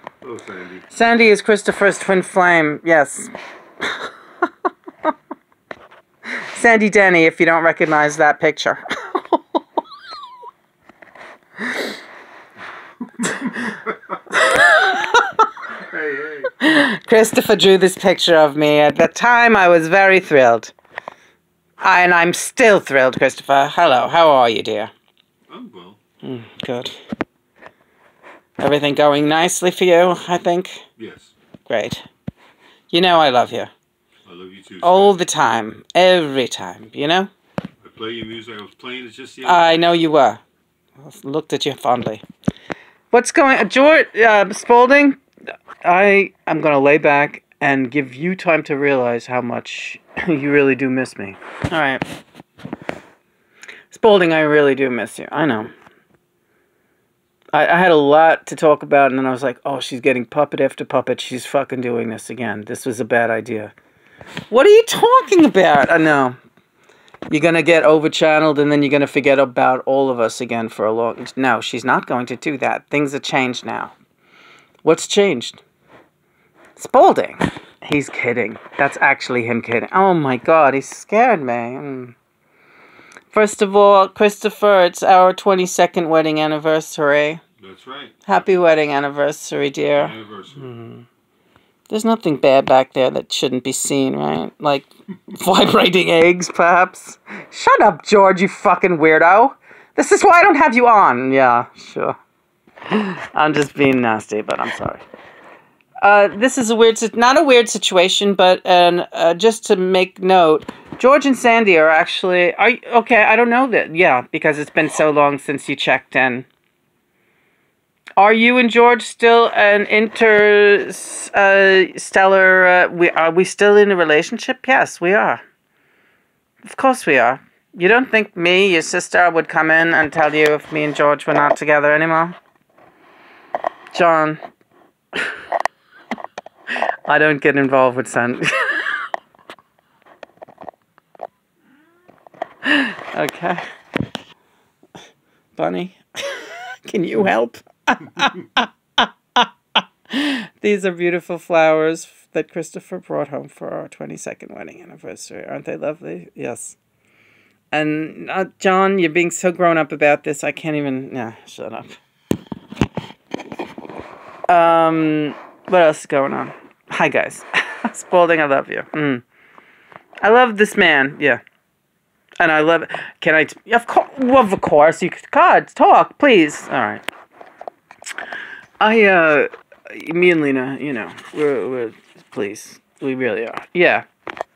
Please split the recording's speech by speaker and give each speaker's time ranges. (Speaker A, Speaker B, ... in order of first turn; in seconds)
Speaker A: 0.2-0.8, 15.9-16.5, 25.5-26.0, 31.0-31.3, 34.2-35.2, 37.8-39.7, 87.6-88.1, 90.0-90.7
Speaker B: 0.9-3.3, 6.5-9.4, 11.6-11.9, 13.2-13.7, 14.3-15.4, 16.6-20.7, 21.8-24.9, 26.2-26.9, 28.6-30.8, 31.7-32.1, 32.9-33.7, 34.8-37.3, 39.4-40.4, 41.0-42.2, 43.1-45.2, 45.8-52.0, 53.9-55.7, 57.5-63.7, 64.5-66.4, 67.3-73.9, 74.8-75.6, 76.8-82.2, 83.3-87.4, 88.3-91.0, 91.9-102.2, 102.9-105.0, 106.0-116.5, 118.2-125.4, 126.6-132.4, 133.9-134.4, 137.1-139.0, 142.6-143.6, 145.6-149.5, 150.1-156.8, 157.7-162.0, 164.5-169.2, 170.2-171.4, 172.4-177.1, 178.8-184.1